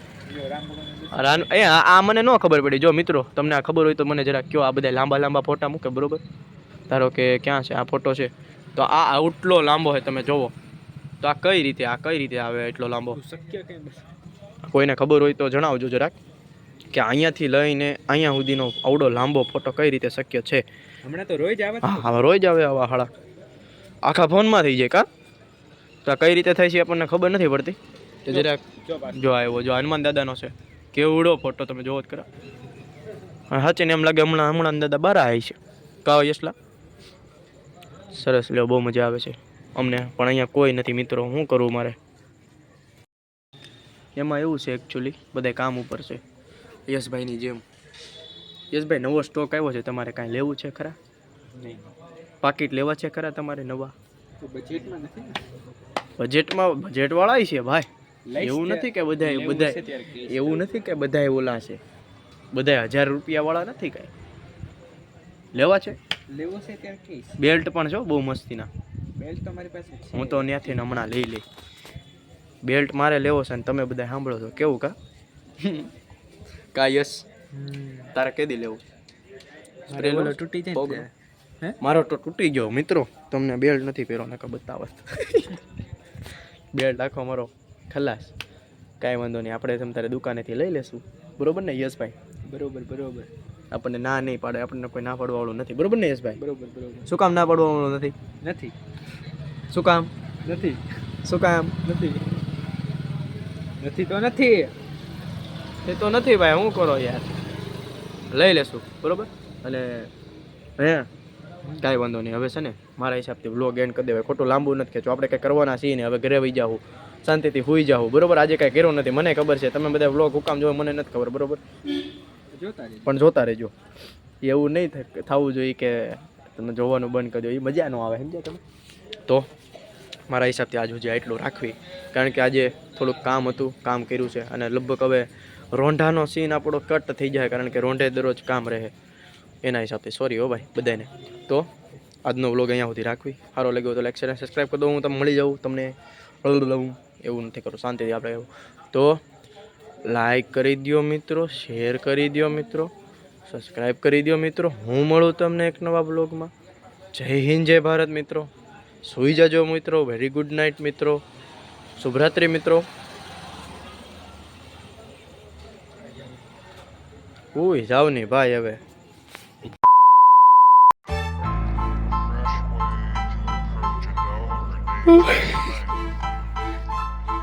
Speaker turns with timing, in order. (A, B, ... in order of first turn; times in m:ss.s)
0:00.3-0:01.5 A
0:01.1-0:06.2 B
0:06.9-0:10.5 B
0:11.2-0:13.2 B
0:13.1-0:14.1 A
0:14.7-0:16.2 B
0:16.9-0:20.6 B
0:21.0-0:22.2 A
0:21.8-0:23.1 B
0:24.0-0:25.1 B
0:26.0-0:32.3 B
0:28.3-0:29.2 A
0:33.5-0:36.6 B
0:38.1-0:42.0 B
0:44.2-0:46.2 B
0:46.9-0:47.6 B
0:48.7-0:51.0 B
0:51.6-0:51.9 A
0:52.4-0:53.9 B
0:54.4-0:55.4 A
0:56.2-1:01.8 B
0:58.3-1:00.7 A
1:02.5-1:04.1 B
1:05.6-1:06.0 B
1:06.3-1:07.4 A
1:07.4-1:08.7 B
1:09.2-1:10.8 A
1:10.1-1:11.4 B
1:12.6-1:15.0 B
1:15.6-1:15.9 B
1:16.7-1:17.3 B
1:17.5-1:18.1 A
1:18.1-1:18.8 B
1:19.9-1:21.8 A
1:19.9-1:21.0 B
1:21.8-1:25.6 B
1:26.7-1:28.3 B
1:29.0-1:32.2 B
1:32.5-1:33.3 A
1:33.7-1:36.4 B
1:36.4-1:37.1 A
1:37.1-1:38.2 B
1:38.4-1:38.8 A
1:39.7-1:40.1 B
1:40.4-1:40.8 A
1:41.2-1:41.8 B
1:41.8-1:42.3 A
1:43.8-1:44.7 A
1:45.9-1:47.3 B
1:48.3-1:50.1 B
1:50.8-1:51.1 B
1:51.8-2:01.6 B
2:02.5-2:03.2 A
2:03.0-2:03.7 B
2:04.4-2:08.6 B
2:10.3-2:18.9 B
2:19.6-2:21.7 B
2:22.3-2:29.2 B
2:30.1-2:32.9 B
2:33.5-2:36.5 B
2:37.2-2:38.5 B
2:39.0-2:41.2 B
2:42.0-2:42.8 B
2:47.6-2:48.8 B
2:52.1-2:56.0 C